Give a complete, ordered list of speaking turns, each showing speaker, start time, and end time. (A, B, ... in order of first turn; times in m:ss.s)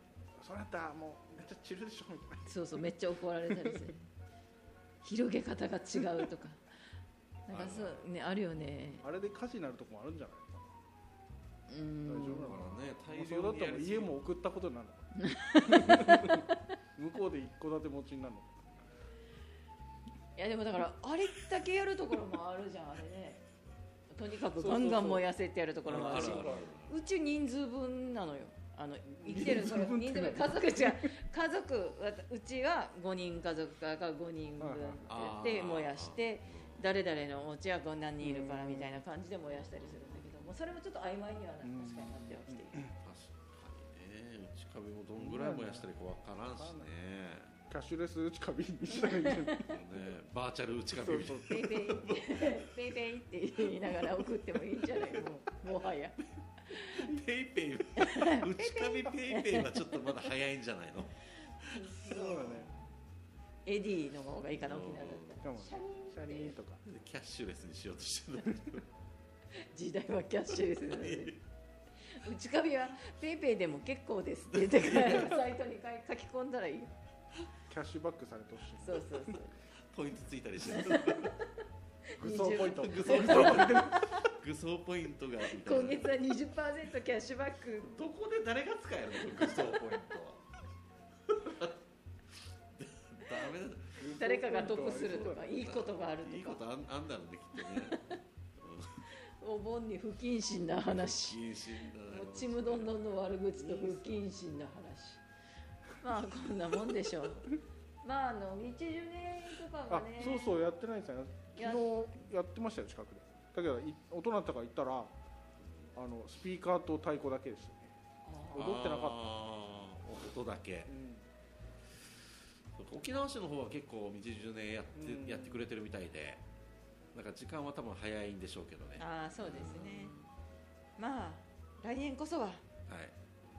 0:00.4-0:02.8 A
0:02.4-0:04.0 B
0:05.0-0:06.6 B
0:07.5-0:09.0 B
0:07.5-0:08.1 C
0:09.0-0:10.8 A
0:11.7-0:12.5 B
0:12.1-0:18.7 A
0:12.4-0:14.1 C
0:15.2-0:16.7 B
0:20.4-0:23.4 B
0:24.1-0:42.8 B
0:24.5-0:25.3 A
0:25.9-0:26.7 A
0:25.9-0:27.0 C
0:29.1-0:31.1 A
0:34.6-0:35.0 A
0:35.1-0:36.8 C
0:38.2-0:39.0 A
0:39.8-0:40.4 C
0:41.6-0:42.9 A
0:43.0-0:47.5 C
0:45.2-0:45.9 A
0:46.6-0:46.9 A
0:47.7-0:49.8 A
0:48.9-0:49.8 B
0:49.7-0:52.7 C
0:51.0-0:51.7 A
0:51.5-0:57.1 B
0:56.7-1:02.6 C
0:58.0-1:00.2 B
1:01.6-1:02.7 B
1:02.0-1:02.7 A
1:03.6-1:06.6 B
1:04.6-1:05.4 C
1:05.4-1:06.8 A
1:06.8-1:08.9 C
1:09.6-1:11.4 B
1:10.8-1:11.4 C
1:12.1-1:16.9 B
1:14.5-1:15.4 C
1:17.7-1:19.4 A
1:18.8-1:19.6 B
1:19.9-1:21.3 C
1:20.7-1:21.5 B
1:22.2-1:23.8 B
1:22.2-1:24.2 A
1:22.5-1:26.1 C
1:25.5-1:27.9 B
1:27.8-1:30.4 C
1:29.3-1:29.7 B
1:31.3-1:31.8 C
1:32.8-1:34.1 C
1:34.0-1:35.6 A
1:34.2-1:36.6 B
1:34.9-1:39.0 C
1:37.6-1:38.2 B
1:39.1-1:45.2 B
1:41.0-1:43.0 C
1:45.9-1:50.6 B
1:49.9-1:55.1 A
1:51.6-1:51.8 B
1:55.9-1:58.0 A
1:58.2-1:58.8 B
1:58.5-1:59.2 A
1:58.5-2:00.9 C
2:00.9-2:01.2 A
2:02.8-2:06.4 C
2:05.0-2:05.6 A
2:07.1-2:10.3 C
2:09.0-2:10.1 B
2:11.0-2:12.6 B
2:12.9-2:13.1 C